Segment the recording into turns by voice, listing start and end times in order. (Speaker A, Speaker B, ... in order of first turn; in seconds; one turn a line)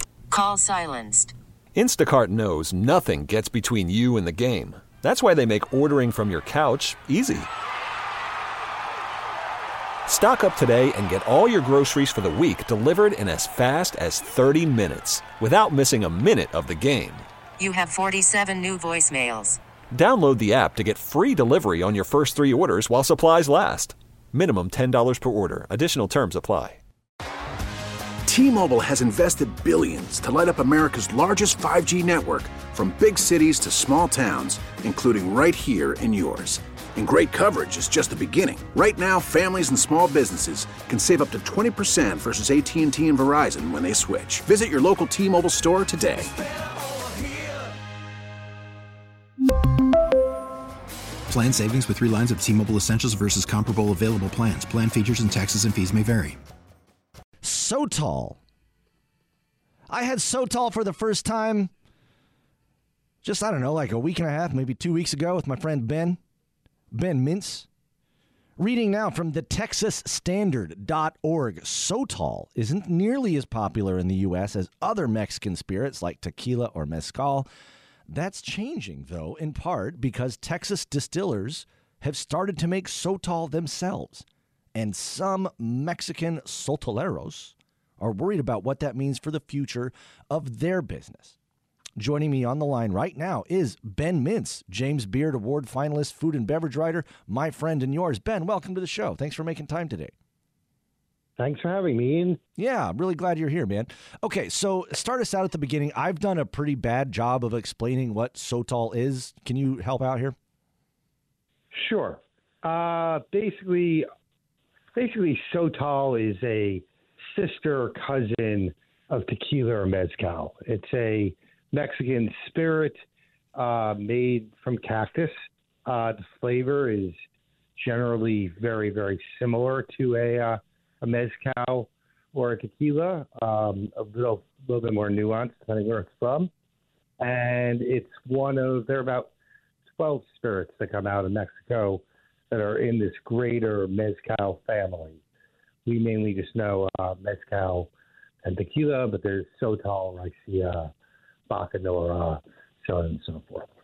Speaker A: 0.3-1.3
Speaker B: 1.8-7.5
Speaker B: 10.1-17.3
Speaker A: 17.6-19.6
Speaker B: 19.9-26.8
Speaker C: 28.3-46.3
Speaker D: 51.3-56.4
Speaker E: 57.4-58.4
Speaker E: 59.9-61.7
Speaker E: 63.2-66.2
Speaker E: 66.9-67.7
Speaker E: 68.6-77.5
Speaker E: 78.1-91.3
Speaker E: 92.0-100.1
Speaker F: 101.4-102.4
Speaker E: 102.6-110.4
Speaker F: 111.7-114.0
Speaker F: 114.9-123.0
Speaker F: 123.5-125.3
Speaker F: 125.9-127.2
Speaker F: 127.8-136.5
Speaker F: 137.2-139.3
Speaker F: 139.9-145.2
Speaker F: 145.8-147.9
Speaker F: 148.4-150.9
Speaker F: 151.5-153.7